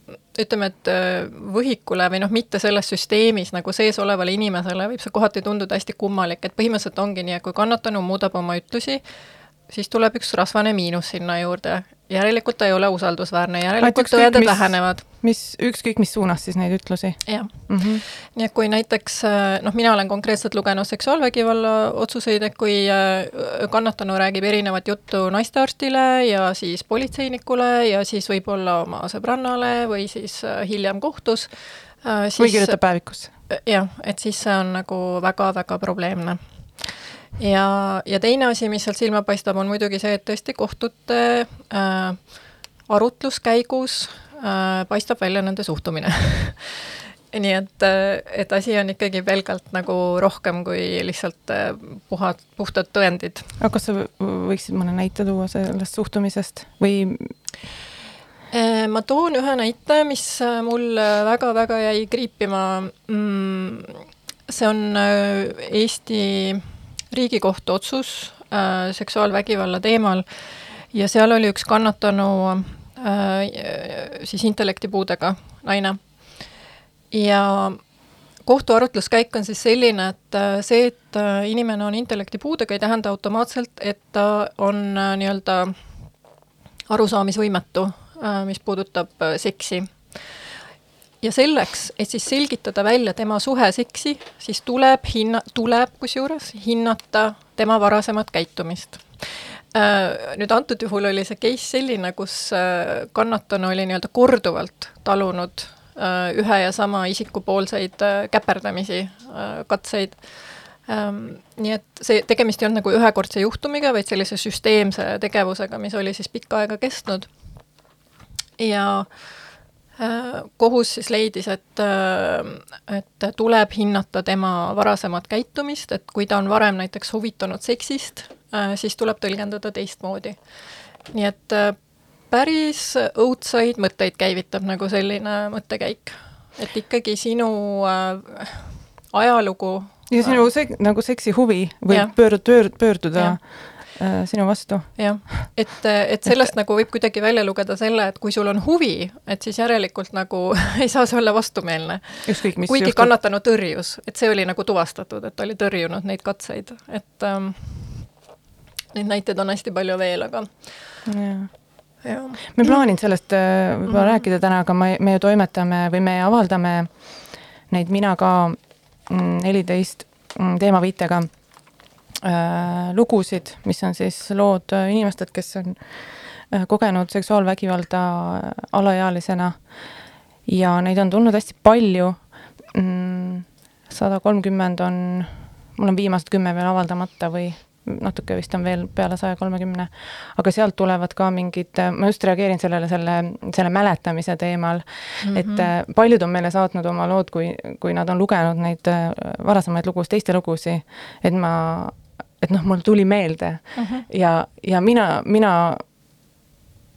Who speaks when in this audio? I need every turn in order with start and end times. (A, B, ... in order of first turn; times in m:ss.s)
0:00.3-0:15.0 A
0:13.8-0:18.0 B
0:17.3-0:53.6 A
0:32.4-0:33.3 B
0:53.6-0:57.4 B
0:58.5-1:16.6 A
1:17.1-1:17.8 A
1:18.4-1:25.8 A
1:26.9-1:30.4 A
1:31.2-1:57.5 A
1:58.6-2:20.5 A
2:20.1-2:25.4 B
2:21.9-2:23.4 A
2:25.0-2:38.1 A
2:32.2-2:33.1 B
2:38.9-2:41.0 A
2:41.1-2:59.8 B
2:42.0-2:43.0 A
2:43.9-2:44.2 A
3:00.4-3:25.8 B
3:15.2-3:15.7 A
3:23.8-3:24.0 A